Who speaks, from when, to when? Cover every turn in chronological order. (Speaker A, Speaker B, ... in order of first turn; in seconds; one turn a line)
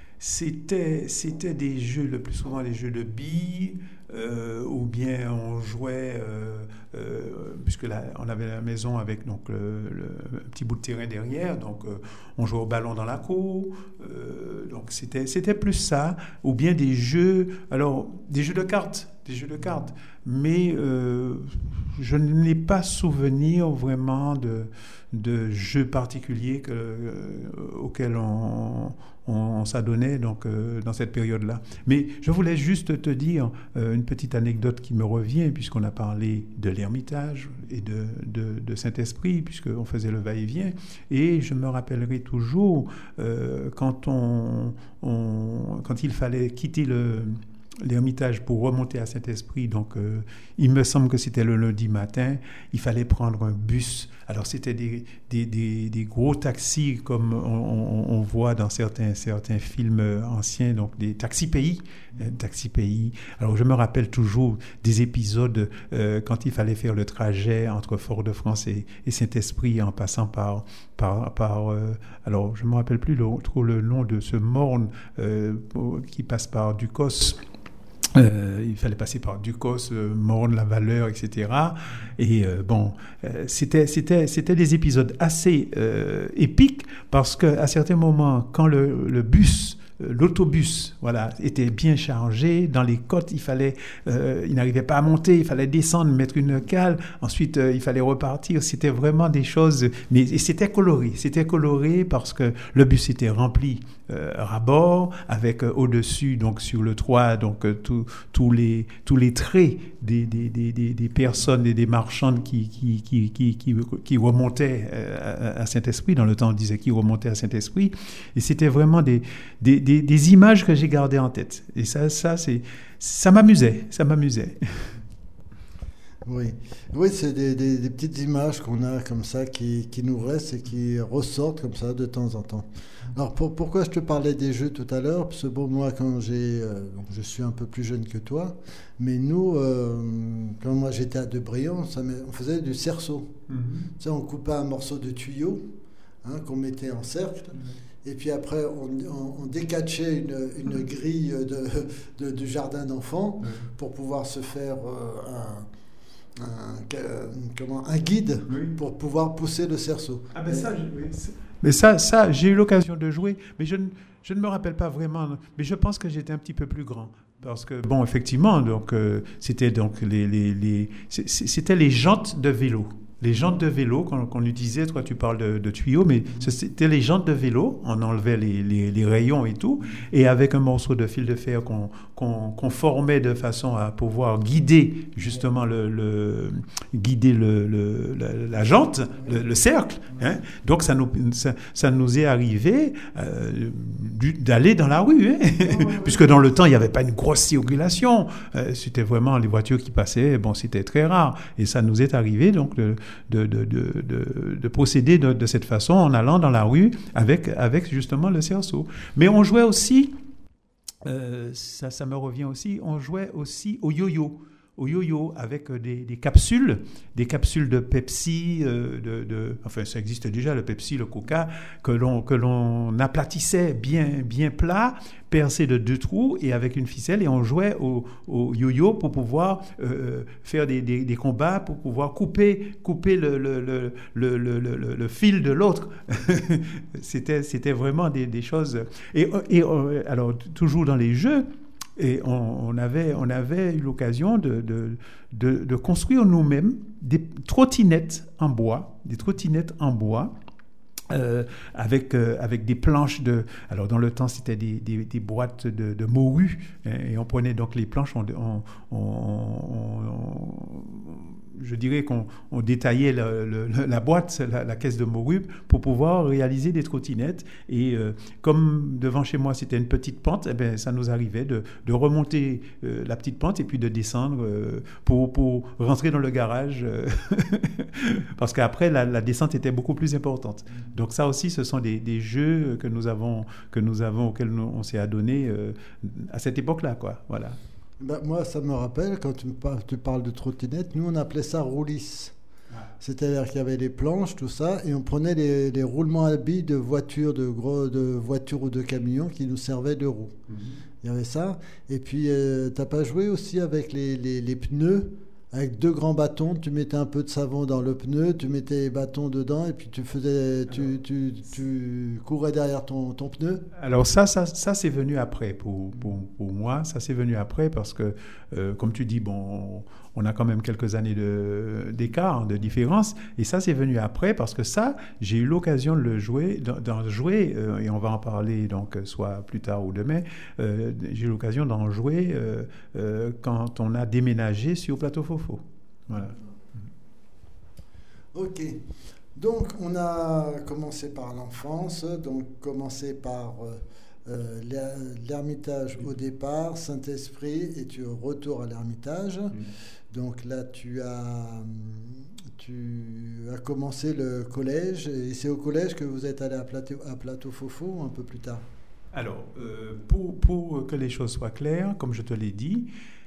Speaker A: 0.2-77.4
Speaker A: 78.1-124.9
Speaker B: 126.2-143.4
Speaker A: 143.5-143.9
Speaker B: 144.0-145.7
Speaker B: 146.2-155.7
Speaker A: 153.4-153.7
Speaker B: 156.4-160.7
Speaker A: 158.5-158.7
Speaker A: 160.3-210.2
Speaker B: 195.6-196.1
Speaker A: 211.0-250.3
Speaker A: 251.1-287.6
Speaker B: 288.0-292.3
Speaker B: 293.0-300.4
Speaker A: 300.5-300.8
Speaker B: 301.0-313.6
Speaker A: 313.7-336.3
Speaker B: 338.3-338.8
Speaker B: 339.3-349.6
Speaker B: 350.1-358.6
Speaker A: 359.1-362.9